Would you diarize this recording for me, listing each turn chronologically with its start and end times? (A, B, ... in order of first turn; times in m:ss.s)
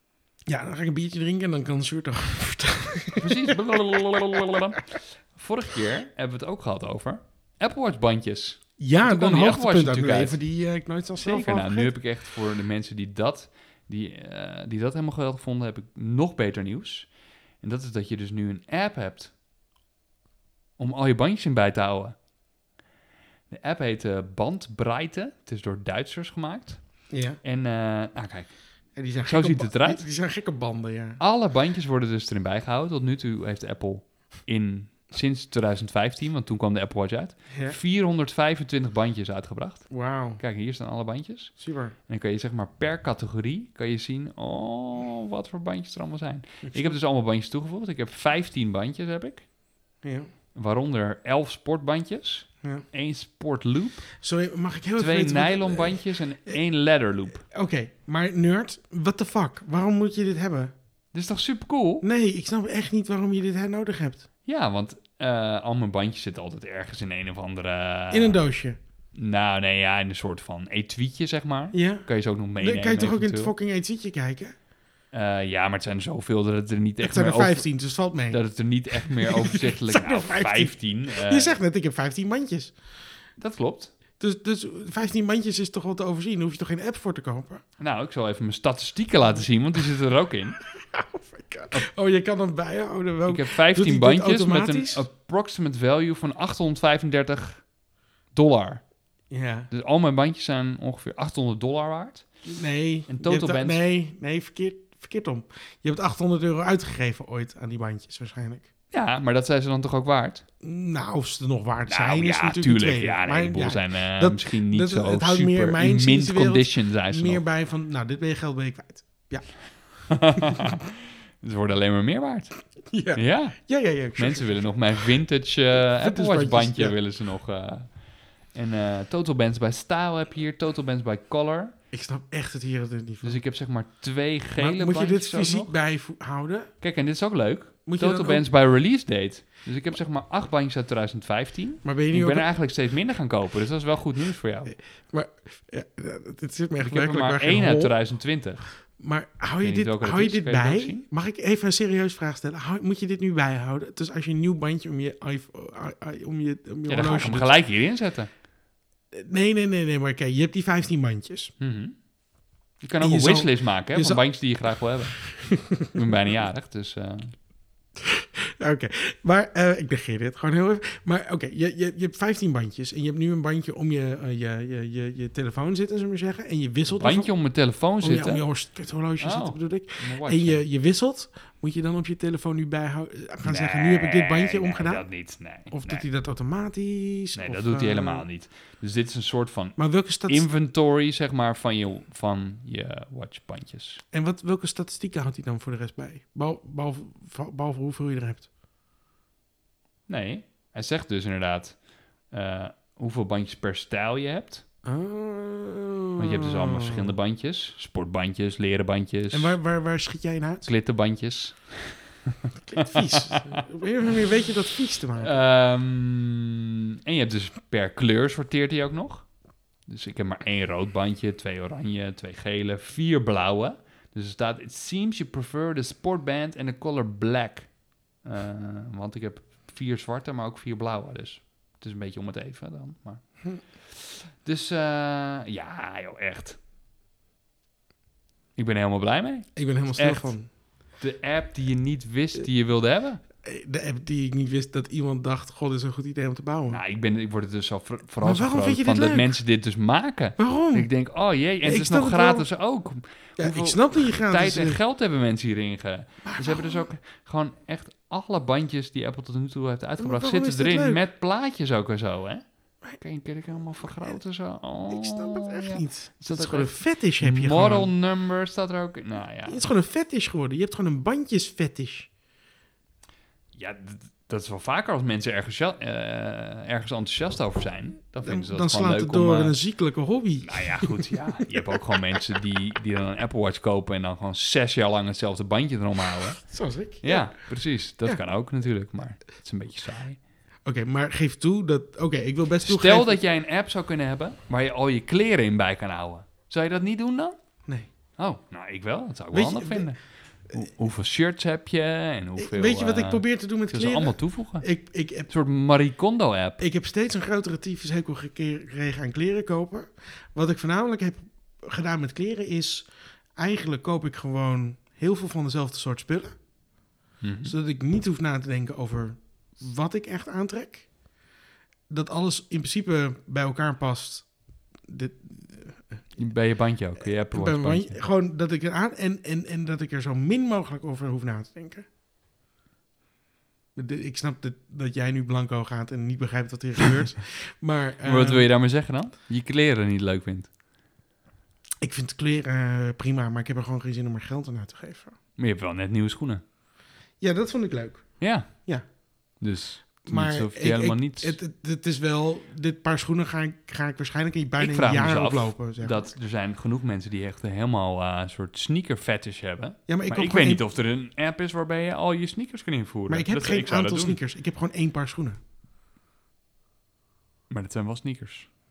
0:00.5-0:04.6 A
0:03.2-0:10.4 B
0:08.8-0:11.9 A
0:11.2-0:17.1 B
0:17.6-0:19.3 B
0:20.8-0:22.2 B
0:23.5-0:26.8 B
0:27.1-0:27.4 A
0:27.4-0:28.5 B
0:29.0-0:31.2 A
0:29.2-0:30.0 B
0:31.2-0:41.5 B
0:37.5-0:37.8 A
0:39.9-0:40.4 A
0:41.6-0:42.0 A
0:42.1-0:49.4 B
0:46.6-0:47.0 A
0:50.0-0:50.3 A
0:50.5-0:54.1 B
0:54.2-0:56.0 A
0:55.0-0:57.4 B
0:57.5-1:00.7 A
1:01.1-1:02.0 B
1:02.0-1:04.2 A
1:04.4-1:08.4 B
1:08.1-1:08.8 A
1:09.1-1:13.5 B
1:11.7-1:12.1 A
1:12.6-1:14.5 A
1:15.1-1:17.6 B
1:17.0-1:18.4 A
1:18.3-1:21.6 B
1:18.9-1:22.8 A
1:23.4-1:23.9 B
1:24.2-1:27.6 A
1:27.8-1:30.6 B
1:30.8-1:35.0 A
1:33.3-1:37.6 B
1:38.3-1:38.8 B
1:39.3-1:39.7 A
1:39.7-1:42.2 B
1:42.4-1:48.7 A
1:43.1-1:43.8 B
1:48.9-1:50.4 B
1:50.6-2:00.7 A
1:51.9-1:57.4 B
2:00.1-2:02.6 B
2:02.9-2:05.1 A
2:03.1-2:03.6 B
2:04.2-2:08.0 B
2:05.8-2:07.0 A
2:08.5-2:11.7 B
2:11.9-2:13.4 A
2:13.2-2:15.7 B
2:14.6-2:16.7 A
2:16.8-2:24.8 B
2:17.8-2:18.4 A
2:21.8-2:22.5 A
2:25.1-2:27.9 A
2:26.8-2:28.6 B
2:29.0-2:37.5 A
2:29.6-2:31.0 B
2:36.9-2:38.3 B
2:39.1-2:41.5 A
2:41.6-2:41.9 B
2:42.8-2:47.3 B
2:43.0-2:44.2 A
2:45.2-2:46.0 A
2:48.0-2:57.3 A
2:56.9-2:58.4 B
2:58.0-3:05.0 A
2:59.2-3:00.6 B
3:03.4-3:06.0 B
3:05.7-3:08.2 A
3:07.3-3:14.0 B
3:09.8-3:10.5 A
3:14.1-3:18.5 A
3:20.1-3:21.8 B
3:22.3-3:24.6 B
3:24.8-3:27.1 A
3:26.2-3:29.6 B
3:29.3-3:30.7 A
3:30.6-3:34.2 B
3:32.7-3:35.3 A
3:35.2-3:39.3 B
3:39.9-3:47.7 B
3:48.2-3:53.2 B
3:53.7-3:56.6 B
3:58.6-4:00.3 B
3:59.6-4:00.5 A
4:01.0-4:03.2 B
4:03.4-4:06.8 A
4:06.7-4:22.4 B
4:08.2-4:09.4 A
4:10.4-4:10.9 A
4:11.6-4:12.5 A
4:13.4-4:14.8 A
4:16.2-4:16.8 A
4:20.0-4:21.0 A
4:23.0-4:29.6 B
4:24.9-4:27.9 A
4:29.4-4:32.1 A
4:33.5-4:39.6 B
4:38.2-4:42.2 A
4:40.4-4:46.4 B
4:46.4-4:47.4 A
4:47.0-4:50.2 B
4:50.6-4:53.2 A
4:52.6-4:57.4 B
4:58.2-5:00.0 B
4:59.3-4:59.9 A
5:00.5-5:04.6 B
5:02.4-5:05.3 A
5:05.3-5:06.6 B
5:06.6-5:16.3 A
5:17.2-5:17.5 B
5:17.4-5:20.9 A
5:21.9-5:24.3 A
5:24.9-5:26.2 A
5:26.2-5:28.0 B
5:27.3-5:31.8 A
5:33.8-5:38.4 A
5:38.0-5:40.5 B
5:41.8-5:45.1 A
5:45.4-5:46.4 B
5:47.2-5:48.8 A
5:48.2-5:48.5 B
5:49.4-5:51.4 B
5:50.0-5:56.0 A
5:54.6-6:04.2 B
5:59.9-6:00.6 A
6:03.1-6:05.4 A
6:07.5-6:08.5 B